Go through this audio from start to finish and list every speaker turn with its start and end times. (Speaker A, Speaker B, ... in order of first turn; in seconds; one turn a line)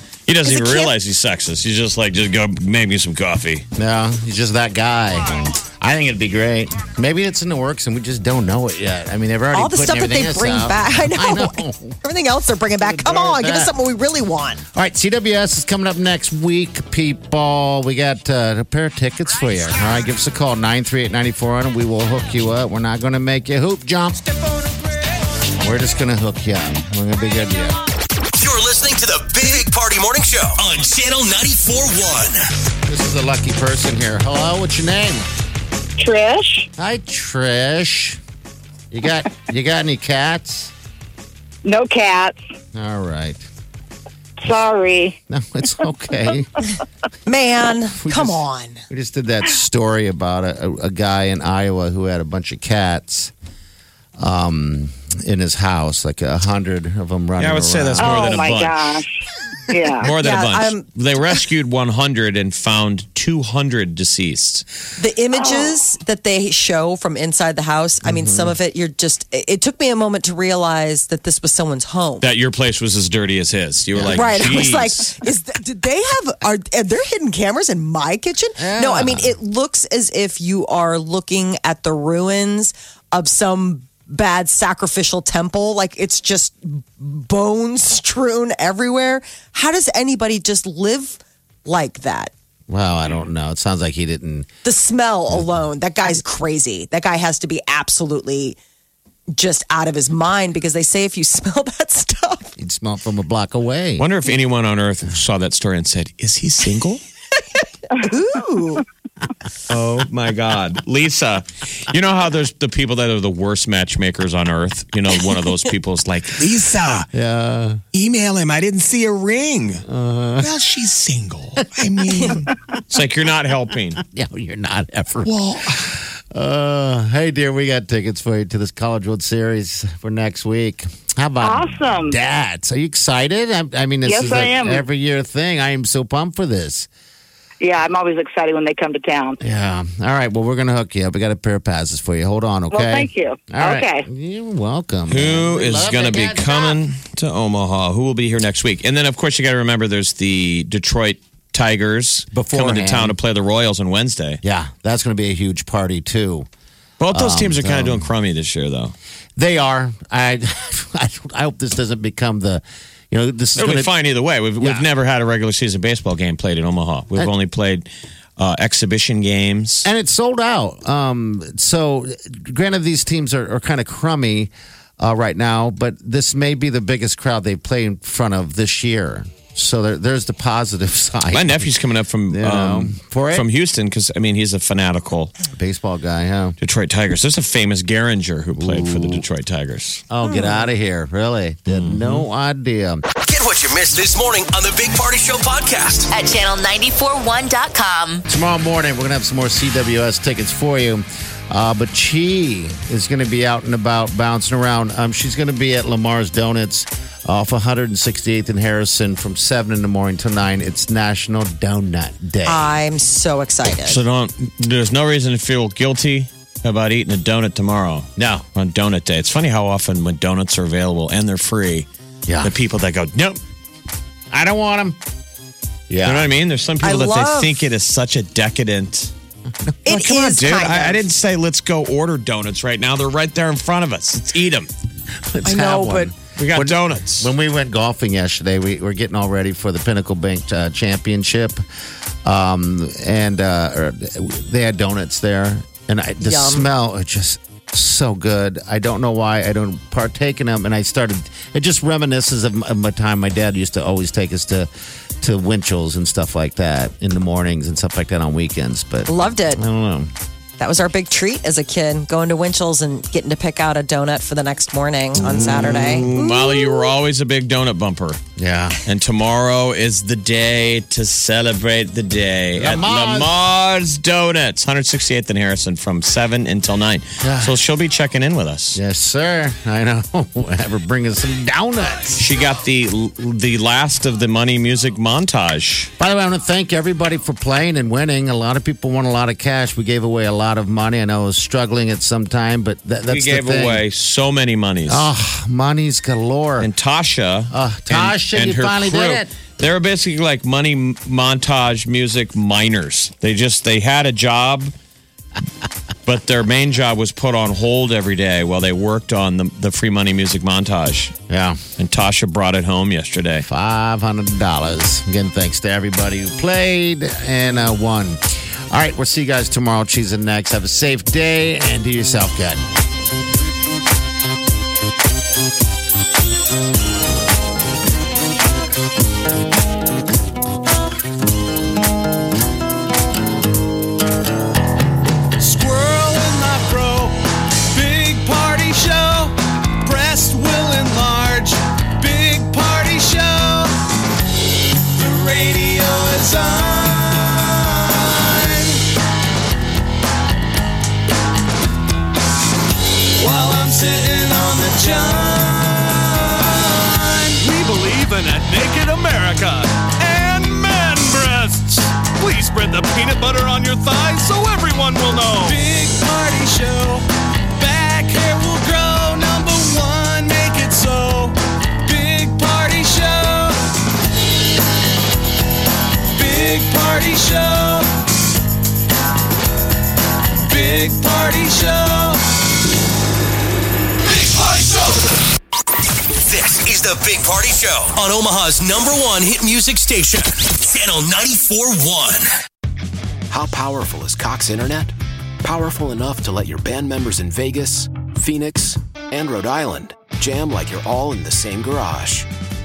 Speaker A: 0.3-3.6
Speaker B: 0.4-0.9
Speaker C: 3.8-11.9
Speaker B: 9.5-14.6
Speaker C: 12.8-13.7
Speaker C: 14.7-24.2
Speaker C: 25.5-27.8
Speaker D: 28.4-32.5
Speaker C: 32.9-35.2
Speaker E: 36.0-36.7
Speaker C: 36.8-38.2
Speaker C: 38.9-40.7
Speaker E: 41.6-42.4
Speaker C: 42.7-43.4
Speaker E: 44.4-45.2
Speaker C: 45.3-46.6
Speaker B: 47.2-48.8
Speaker C: 48.0-53.3
Speaker C: 54.2-58.1
Speaker A: 57.4-59.0
Speaker E: 58.0-59.1
Speaker E: 59.7-60.1
Speaker A: 60.0-64.6
Speaker B: 60.2-60.9
Speaker B: 65.0-72.3
Speaker C: 68.0-68.5
Speaker A: 72.2-75.2
Speaker C: 74.0-74.4
Speaker B: 74.1-92.3
Speaker C: 78.6-79.3
Speaker C: 92.7-94.5
Speaker B: 94.6-98.6
Speaker B: 99.3-102.5
Speaker C: 102.6-104.1
Speaker A: 104.0-107.0
Speaker B: 108.0-108.8
Speaker A: 109.7-117.0
Speaker F: 116.6-117.0
Speaker C: 117.1-117.8
Speaker A: 117.9-119.8
Speaker C: 119.9-120.5
Speaker F: 120.4-122.3
Speaker A: 120.4-124.0
Speaker C: 122.1-122.4
Speaker C: 124.0-125.3
Speaker C: 125.9-136.9
Speaker E: 131.4-132.1
Speaker E: 134.0-134.8
Speaker E: 137.6-139.4
Speaker C: 139.4-146.8
Speaker E: 142.7-144.1
Speaker A: 145.1-154.4
Speaker C: 152.3-153.2
Speaker C: 154.4-156.5
Speaker A: 157.0-158.9
Speaker C: 157.1-158.1
Speaker C: 159.4-163.9
Speaker A: 163.6-169.9
Speaker C: 164.6-164.9
Speaker C: 169.8-181.7
Speaker A: 181.3-185.3
Speaker C: 182.3-183.5
Speaker C: 185.5-186.6
Speaker A: 186.6-190.0
Speaker C: 188.6-189.2
Speaker C: 190.1-193.0
Speaker B: 190.2-190.7
Speaker A: 191.7-192.2
Speaker D: 193.2-196.1
Speaker G: 196.1-198.2
Speaker C: 198.3-212.7
Speaker B: 212.4-214.0
Speaker A: 213.8-221.9
Speaker C: 218.2-218.4
Speaker C: 222.3-222.5
Speaker A: 222.4-223.4
Speaker C: 224.3-225.0
Speaker C: 225.9-226.3
Speaker A: 226.0-229.1
Speaker B: 226.8-227.6
Speaker B: 229.8-231.0
Speaker A: 229.8-234.7
Speaker C: 235.3-241.6
Speaker B: 235.4-236.1
Speaker A: 236.3-237.3
Speaker C: 242.2-254.7
Speaker B: 246.2-246.7
Speaker C: 255.2-260.1
Speaker B: 259.1-259.6
Speaker B: 260.6-266.9
Speaker A: 265.2-268.2
Speaker C: 265.3-266.0
Speaker C: 268.4-268.8
Speaker A: 268.8-278.8
Speaker C: 272.5-273.4
Speaker C: 277.2-277.6
Speaker C: 278.7-282.2
Speaker A: 282.2-285.9
Speaker C: 286.0-293.8
Speaker A: 293.1-295.1
Speaker C: 294.9-296.7
Speaker A: 296.6-304.7
Speaker C: 297.5-299.3
Speaker A: 306.1-311.1
Speaker C: 311.3-311.6
Speaker A: 311.8-313.5
Speaker C: 313.4-322.6
Speaker F: 335.4-337.1
Speaker F: 337.7-343.7
Speaker F: 345.0-348.8
Speaker F: 353.2-356.4
Speaker F: 357.2-367.1
Speaker F: 367.6-371.3
Speaker F: 371.9-373.6
Speaker F: 376.1-377.9
Speaker F: 380.5-382.1
Speaker D: 386.1-392.3
Speaker H: 393.3-402.3